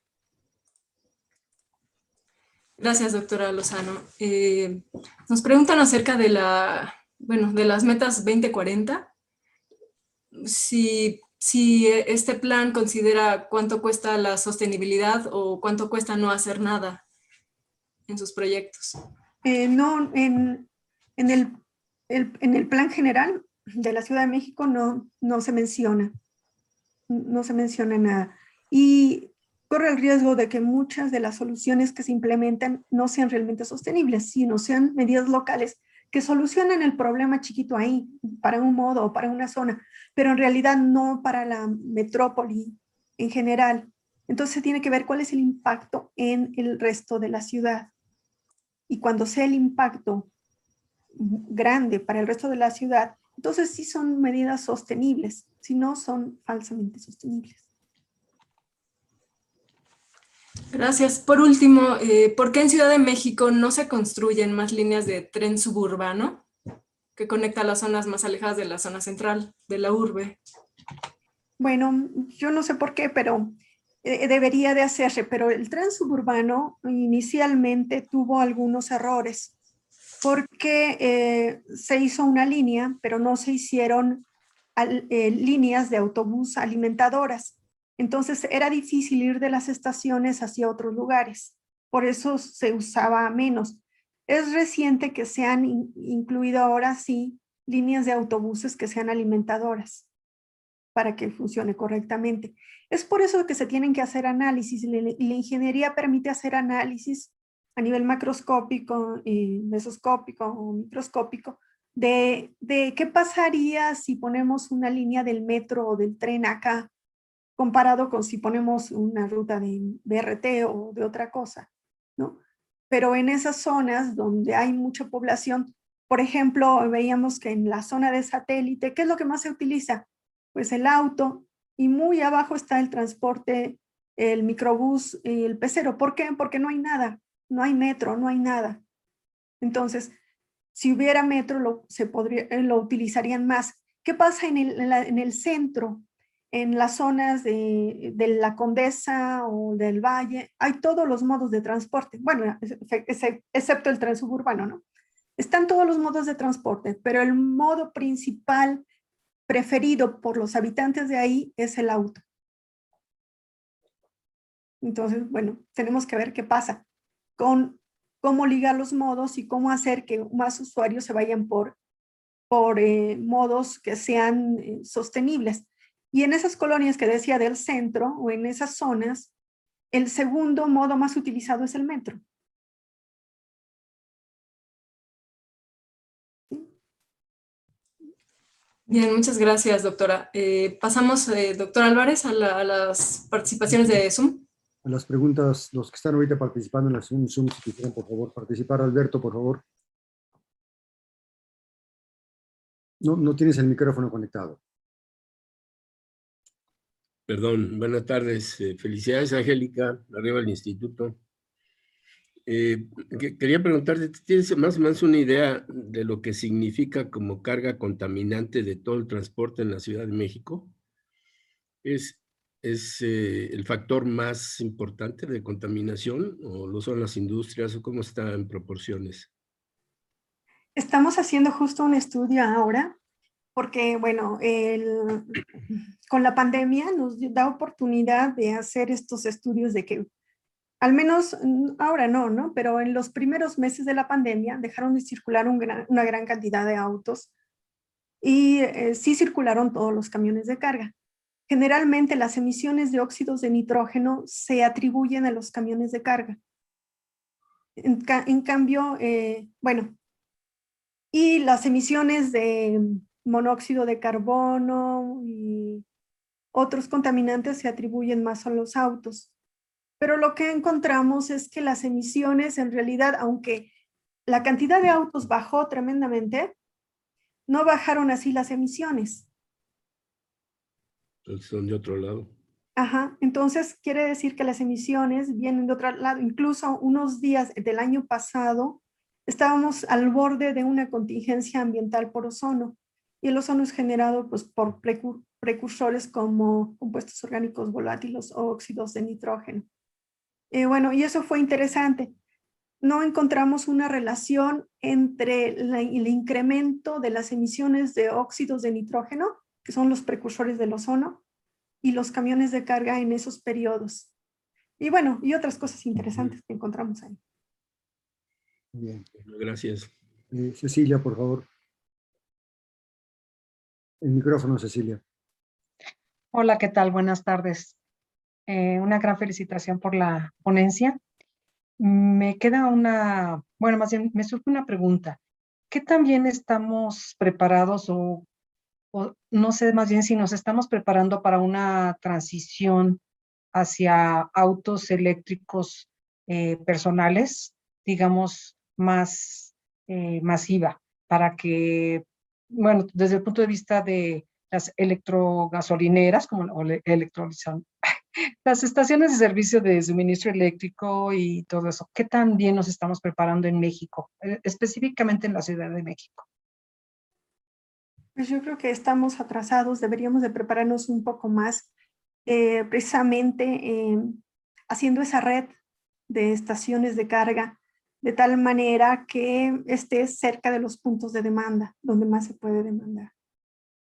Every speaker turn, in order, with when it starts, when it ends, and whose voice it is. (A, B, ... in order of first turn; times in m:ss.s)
0:02.8-0:09.1 A
0:10.3-0:17.0 A
0:18.1-0:19.0 A
0:19.4-0:21.5 B
0:22.1-0:26.1 B
0:27.1-0:47.9 B
0:48.9-0:50.3 B
0:51.2-0:57.6 B
1:00.7-1:06.4 A
1:07.2-1:10.4 A
1:11.6-1:19.5 B
1:20.2-1:24.2 B
1:24.8-1:40.0 B
1:40.9-1:56.9 B
1:57.6-2:02.4 B
2:02.9-2:18.8 B
2:19.6-2:20.1 B
2:20.7-2:34.8 B
2:35.4-2:38.8 B
2:39.5-2:42.2 B
2:44.8-2:46.8 B
2:47.4-2:51.8 B
2:52.5-2:59.3 B
2:59.9-3:02.2 B
3:08.9-3:14.4 A
3:14.8-3:19.6 C
3:23.0-3:24.6 C
3:27.3-3:31.2 D
3:32.5-3:40.7 D
3:41.8-3:49.3 D
3:50.8-3:53.0 B
3:53.6-3:55.4 B
3:56.1-4:00.1 B
4:00.8-4:07.3 B
4:08.2-4:10.9 B
4:11.5-4:16.4 B
4:17.8-4:19.9 B
4:21.1-4:25.8 B
4:26.5-4:29.3 B
4:30.0-4:33.7 B
4:34.3-4:36.5 B
4:37.5-4:39.2 B
4:41.2-4:42.3 D
4:42.8-4:59.7 B
5:00.5-5:02.1 B
5:02.8-5:11.2 B
5:11.8-5:14.1 B
5:14.8-5:17.2 B
5:18.7-5:19.1 C
5:19.2-5:19.9 D
5:20.3-5:21.5 C
5:24.0-5:25.0 C
5:26.3-5:27.7 E
5:28.5-5:31.0 E
5:31.8-5:35.2 E
5:35.7-5:38.2 E
5:38.9-5:43.0 E
5:43.5-5:57.7 E
5:58.4-6:06.2 E
6:08.2-6:11.7 B
6:12.2-6:14.2 B
6:14.7-6:15.5 B
6:16.1-6:23.1 B